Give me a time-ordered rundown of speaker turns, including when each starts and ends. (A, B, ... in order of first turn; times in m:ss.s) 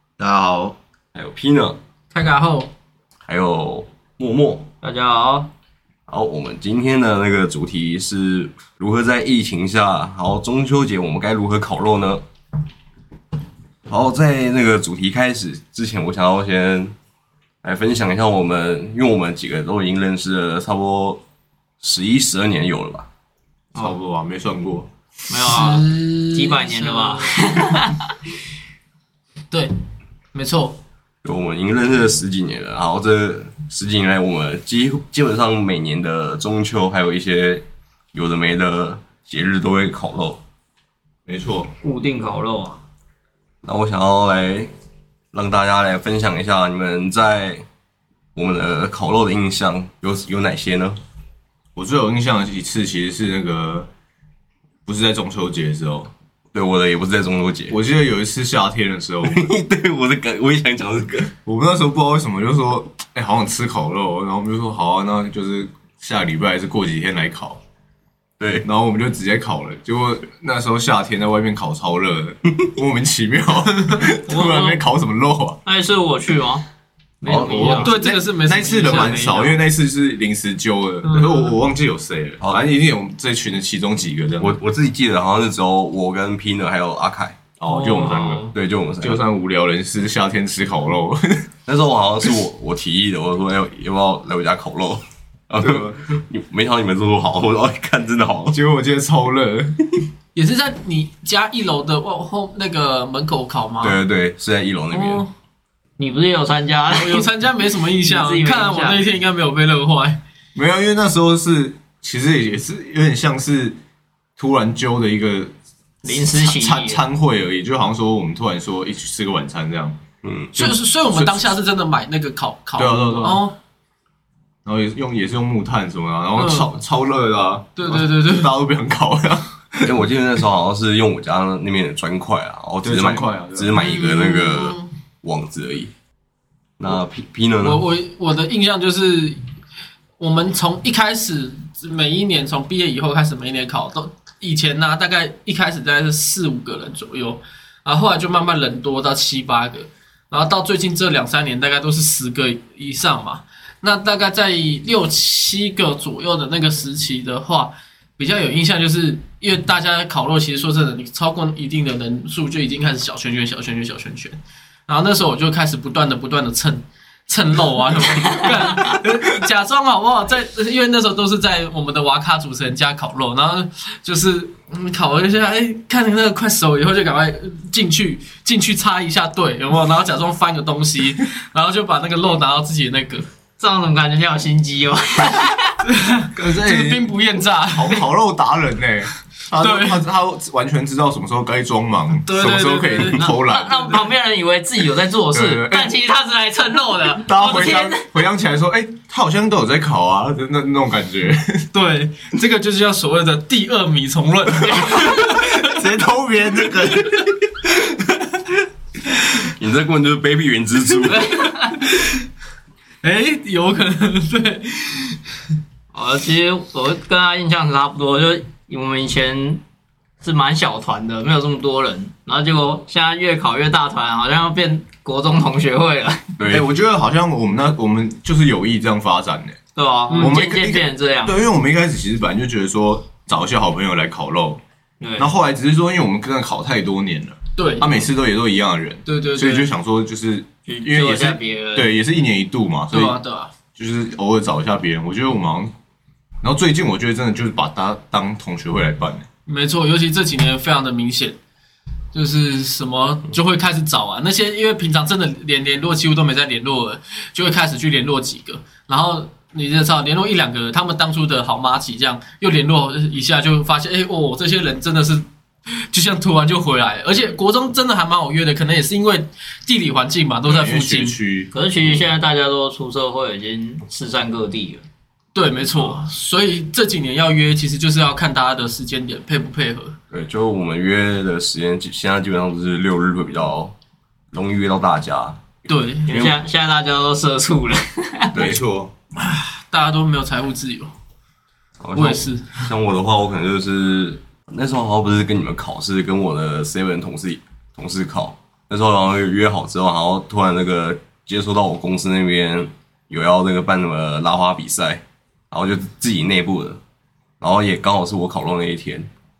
0:00.2-0:00.7 A
0:01.1-0:01.8 B
0:02.1-0:02.7 C
0:03.2-0:04.7 B
0:04.8-0:05.5 D
0:06.1-0:12.2 B
0:13.8-0:16.9 B
0:17.6-0:21.2 B
0:21.8-0:23.1 B
0:23.8-0:24.9 A
0:25.3-0:28.1 D
0:25.4-0:27.3 C
0:30.3-0:30.8 C
0:31.2-0:40.4 B
0:41.2-0:41.7 A
0:41.8-0:42.8 D
0:43.6-0:44.7 B
0:45.3-0:47.6 B
0:48.3-0:51.0 B
0:51.8-0:53.9 A
0:54.8-0:56.1 A
0:56.5-0:57.8 B
0:57.7-0:59.5 A
0:59.2-1:01.3 B
1:01.4-1:07.6 A
1:08.4-1:08.6 B
1:08.6-1:15.6 A
1:14.2-1:14.8 D
1:15.6-1:16.6 D
1:17.2-1:18.2 D
1:17.3-1:17.8 B
1:17.3-1:24.6 A
1:17.6-1:19.3 C
1:18.8-1:19.6 D
1:21.0-1:21.5 C
1:24.4-1:27.4 B
1:27.6-1:31.5 A
1:27.7-1:28.5 D
1:28.5-1:29.2 B
1:31.7-1:38.6 B
1:35.6-1:36.0 A
1:38.5-1:39.8 A
1:40.3-1:44.0 C
1:43.8-1:45.2 B
1:44.9-1:45.3 C
1:46.0-1:47.3 D
1:46.9-1:50.2 C
1:48.0-1:49.0 D
1:50.5-1:53.8 A
1:54.4-1:55.5 A
1:56.0-1:57.0 D
1:56.0-2:00.0 A
2:00.2-2:00.8 B
2:00.6-2:03.6 C
2:01.1-2:01.6 A
2:02.8-2:03.4 A
2:04.6-2:09.9 A
2:06.4-2:06.7 C
2:07.8-2:08.5 C
2:09.8-2:15.9 B
2:12.8-2:13.8 A
2:13.7-2:14.9 C
2:16.8-2:17.8 B
2:17.6-2:19.4 C
2:20.2-3:03.2 C
3:03.6-3:05.8 D
3:05.8-3:08.1 C
3:06.3-3:07.1 A
3:07.7-3:14.0 A
3:09.6-3:10.0 C
3:12.2-3:13.3 C
3:13.2-3:18.1 D
3:15.3-3:15.9 A
3:17.2-3:21.7 A
3:21.7-3:25.8 C
3:25.0-3:27.4 A
3:26.9-3:27.3 C
3:29.4-3:31.4 B
3:31.1-3:31.8 D
3:33.0-3:35.2 C
3:35.9-3:39.6 D
3:40.2-3:46.2 D
3:46.4-3:46.6 B
3:46.5-3:49.6 A
3:49.8-3:51.4 D
3:50.1-3:50.4 C
3:50.2-3:54.6 A
3:55.0-3:55.3 D
3:55.2-4:03.2 A
3:57.6-3:57.9 C
3:59.0-3:59.7 C
4:00.7-4:01.9 D
4:02.9-4:03.5 C
4:03.8-4:05.7 A
4:06.4-4:09.2 A
4:09.5-4:11.4 C
4:12.1-4:25.2 C
4:25.9-4:31.2 C
4:30.4-4:31.5 A
4:31.5-4:34.8 D
4:35.3-4:39.9 C
4:40.1-4:43.7 B
4:44.3-4:45.4 B
4:45.7-4:46.1 C
4:46.1-4:48.3 D
4:46.1-4:46.3 B
4:48.3-4:48.9 A
4:49.1-4:50.9 C
4:51.8-5:06.8 B
4:51.9-4:52.7 C
5:07.4-5:09.1 B